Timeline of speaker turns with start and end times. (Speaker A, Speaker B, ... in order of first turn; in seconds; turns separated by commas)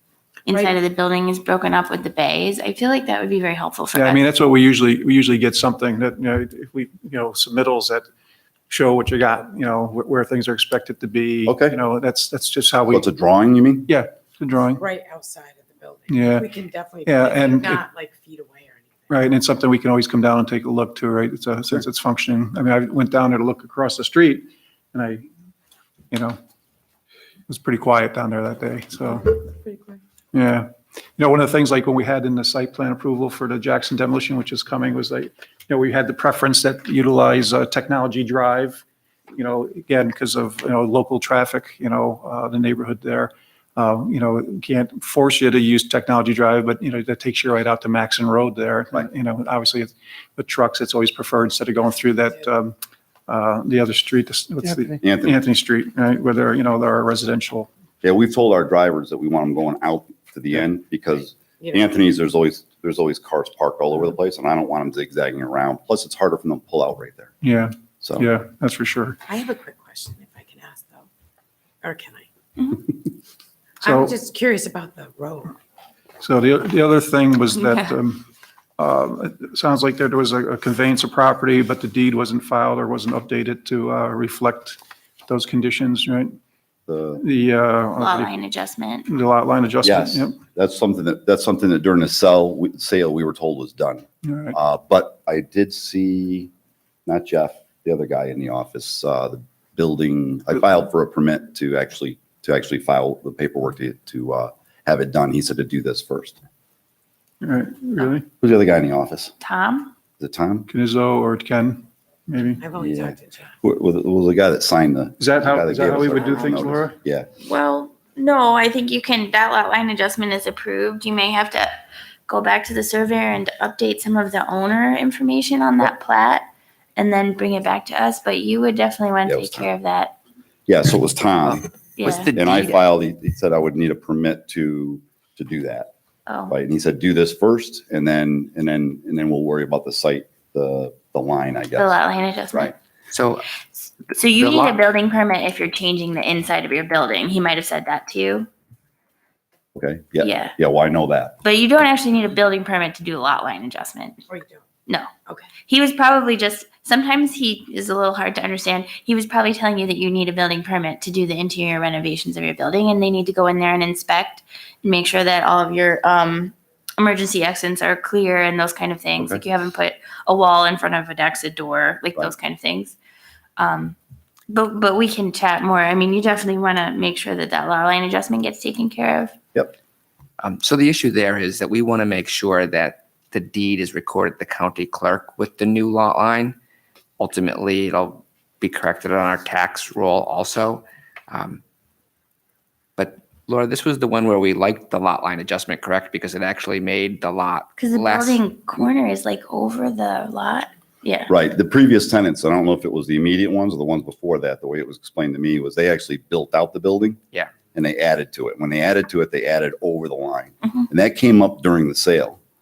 Speaker A: 0.5-4.2, Speaker B: 3.9-8.1, Speaker B: 8.7-13.1, Speaker C: 11.5-11.8, Speaker C: 12.9-13.9, Speaker B: 13.9-14.8, Speaker D: 14.7-19.2, Speaker B: 16.1-16.5, Speaker B: 17.1-17.9, Speaker B: 19.1-25.3, Speaker B: 26.1-26.4, Speaker B: 27.5-29.3, Speaker D: 29.0-30.0, Speaker B: 30.3-52.8, Speaker B: 53.3-57.7, Speaker C: 55.0-55.4, Speaker C: 58.0-67.3, Speaker D: 61.6-61.9, Speaker B: 67.4-69.2, Speaker C: 68.0-68.3, Speaker D: 69.3-71.1, Speaker D: 71.8-72.3, Speaker D: 73.8-75.6, Speaker B: 73.8-74.2, Speaker B: 76.2-78.3, Speaker A: 77.5-77.9, Speaker B: 78.8-86.4, Speaker C: 86.9-87.2, Speaker B: 87.2-88.3, Speaker A: 88.0-89.1, Speaker B: 89.1-90.4, Speaker C: 89.8-96.5, Speaker B: 94.2-94.6, Speaker C: 97.1-106.4, Speaker B: 107.4-108.3, Speaker C: 108.4-109.3, Speaker A: 109.4-109.9, Speaker C: 110.2-110.7, Speaker B: 110.7-112.7, Speaker D: 112.6-113.5, Speaker C: 112.8-117.3, Speaker B: 115.2-117.0, Speaker A: 117.4-121.7, Speaker A: 122.3-130.2, Speaker C: 129.3-129.7, Speaker C: 130.7-131.7, Speaker A: 132.0-132.3, Speaker E: 132.0-132.8, Speaker C: 132.3-135.9, Speaker A: 136.3-136.6, Speaker C: 136.5-142.0, Speaker A: 141.8-142.8, Speaker E: 143.1-143.5, Speaker A: 143.7-148.5, Speaker E: 144.3-144.8, Speaker C: 149.8-151.3, Speaker A: 150.2-150.5, Speaker A: 151.4-154.2, Speaker D: 154.3-154.7, Speaker A: 155.6-173.0, Speaker A: 173.6-174.0, Speaker A: 174.5-179.3, Speaker E: 180.4-186.6, Speaker E: 187.2-191.6, Speaker E: 193.0-198.4, Speaker A: 197.8-201.3, Speaker C: 201.3-207.2, Speaker C: 207.7-212.4